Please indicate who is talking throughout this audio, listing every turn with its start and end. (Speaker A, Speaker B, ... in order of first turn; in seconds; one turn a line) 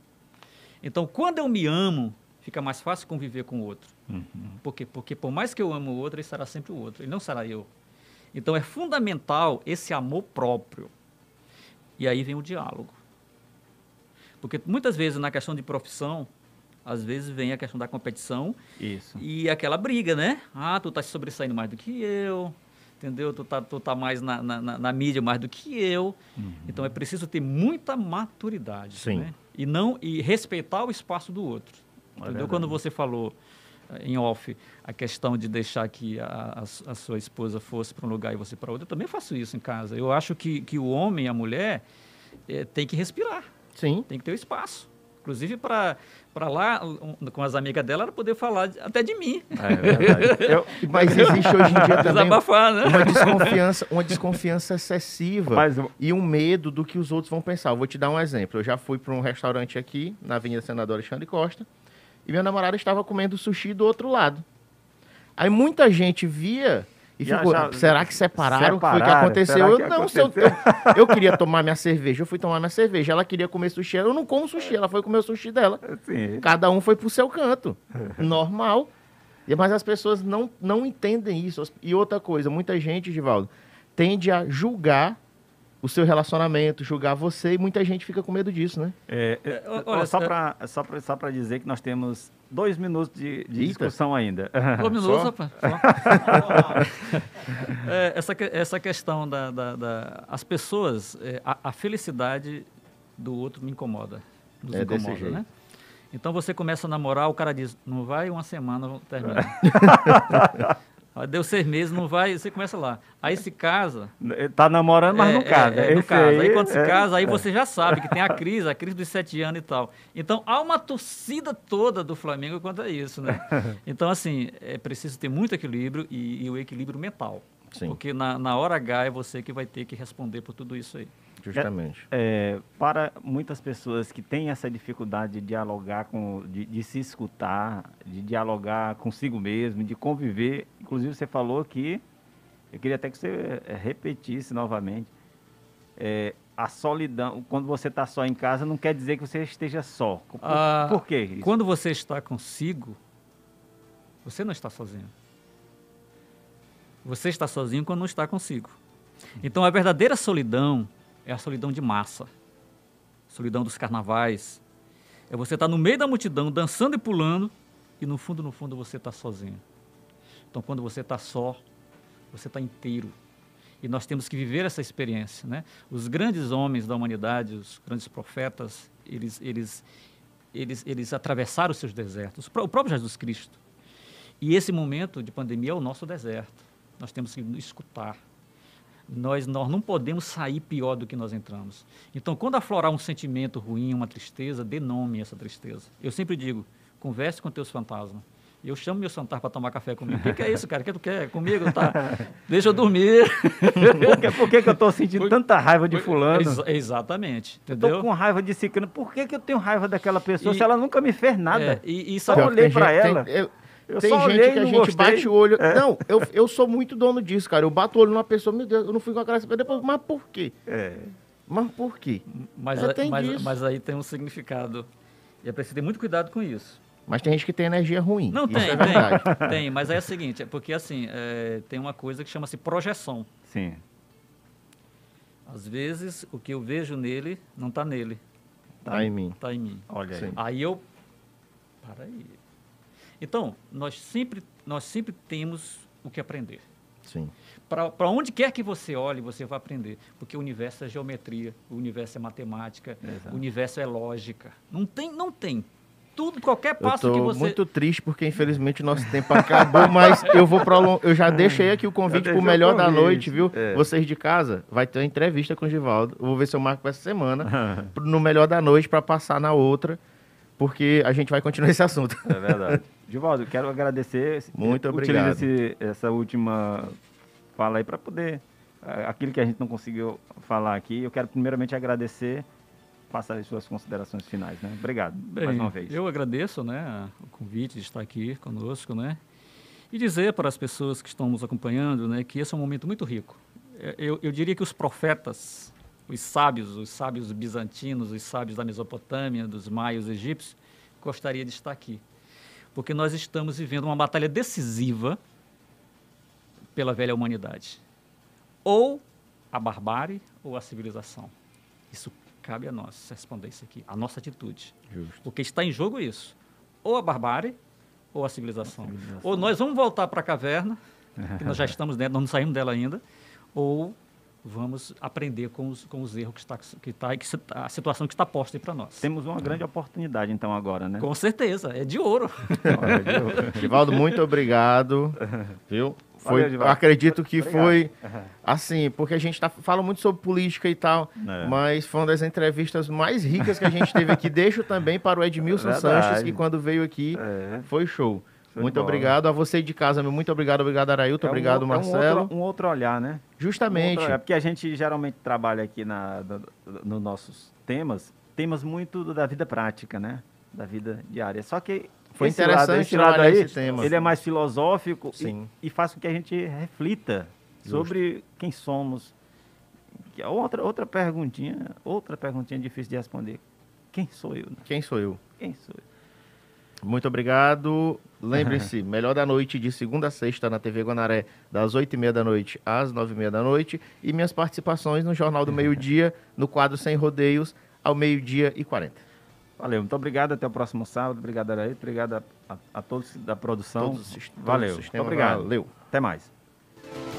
Speaker A: 0.8-3.9
Speaker B: 4.1-4.6
Speaker A: 4.6-7.7
Speaker A: 8.3-10.9
Speaker A: 12.0-13.0
Speaker A: 14.4-16.3
Speaker A: 16.8-18.6
Speaker B: 18.8-19.2
Speaker A: 19.1-26.1
Speaker B: 26.4-26.9
Speaker A: 26.7-33.3
Speaker C: 28.9-29.3
Speaker B: 32.2-32.8
Speaker A: 33.9-41.8
Speaker A: 42.5-43.5
Speaker C: 43.7-44.0
Speaker A: 44.1-53.6
Speaker B: 49.5-52.2
Speaker C: 50.8-61.7
Speaker B: 53.0-53.5
Speaker B: 55.5-55.9
Speaker C: 62.2-64.4
Speaker C: 65.4-75.8
Speaker B: 67.2-71.4
Speaker B: 75.8-76.5
Speaker C: 76.4-78.9
Speaker B: 77.9-78.3
Speaker C: 79.5-85.2
Speaker C: 85.8-89.0
Speaker B: 89.1-96.8
Speaker A: 89.5-90.3
Speaker C: 93.5-93.9
Speaker A: 94.8-102.7
Speaker C: 95.0-95.3
Speaker A: 103.2-105.5
Speaker C: 104.7-105.4
Speaker A: 106.1-109.8
Speaker B: 109.3-110.8
Speaker A: 111.1-114.1
Speaker B: 114.2-118.3
Speaker A: 115.1-131.1
Speaker B: 123.3-123.8
Speaker C: 131.4-132.1
Speaker B: 131.5-142.0
Speaker B: 142.7-145.1
Speaker B: 146.0-151.5
Speaker A: 150.4-153.0
Speaker A: 154.2-155.1
Speaker A: 157.0-158.8
Speaker A: 159.4-162.3
Speaker A: 163.3-164.6
Speaker A: 165.3-169.6
Speaker A: 170.5-171.6
Speaker A: 172.3-173.2
Speaker A: 173.8-179.8
Speaker A: 180.5-183.6
Speaker A: 184.4-188.2
Speaker A: 189.1-205.3
Speaker B: 201.5-202.3
Speaker B: 203.8-206.6
Speaker A: 205.9-208.1
Speaker B: 207.8-213.3
Speaker A: 210.4-210.7
Speaker A: 211.5-212.5
Speaker C: 212.3-220.6
Speaker B: 213.9-216.3
Speaker B: 220.7-221.1
Speaker C: 221.5-222.2
Speaker A: 222.3-224.9
Speaker C: 222.7-223.6
Speaker A: 225.4-226.8
Speaker C: 227.1-229.4
Speaker A: 228.3-233.3
Speaker B: 228.5-230.1
Speaker B: 233.4-233.8
Speaker A: 235.4-238.2
Speaker B: 238.8-239.1
Speaker C: 238.9-239.4
Speaker A: 239.4-240.8
Speaker B: 239.9-240.4
Speaker A: 241.8-242.4
Speaker A: 243.2-246.6
Speaker C: 247.0-247.3
Speaker A: 247.7-257.6
Speaker B: 253.0-253.4
Speaker C: 256.8-270.0
Speaker B: 259.2-263.9
Speaker B: 267.4-267.9
Speaker C: 270.6-272.8
Speaker B: 272.3-277.0
Speaker C: 274.6-275.5
Speaker B: 277.6-282.4
Speaker B: 283.1-286.0
Speaker A: 285.2-289.2
Speaker A: 289.9-302.0
Speaker A: 302.7-305.2
Speaker A: 306.7-307.8
Speaker A: 308.6-311.3
Speaker A: 311.9-317.6
Speaker B: 314.9-315.1
Speaker A: 318.1-320.8
Speaker B: 318.7-319.5
Speaker B: 321.2-321.7
Speaker A: 321.4-323.0
Speaker A: 323.5-329.1
Speaker B: 329.0-331.1
Speaker A: 331.0-334.2
Speaker B: 332.7-333.6
Speaker C: 333.5-337.9
Speaker B: 335.2-335.5
Speaker B: 336.2-338.3
Speaker C: 338.4-352.3
Speaker B: 341.2-341.6
Speaker B: 343.4-344.2
Speaker B: 345.4-346.4
Speaker B: 347.1-347.7
Speaker B: 348.5-349.1
Speaker B: 351.2-369.1
Speaker C: 353.4-354.2
Speaker C: 362.1-364.1
Speaker A: 363.6-363.9
Speaker C: 365.2-365.5
Speaker C: 367.6-367.9
Speaker B: 370.1-373.4
Speaker B: 373.9-374.6
Speaker C: 374.6-375.2
Speaker B: 375.4-375.8
Speaker C: 376.8-389.0
Speaker B: 389.6-396.3
Speaker C: 393.8-395.7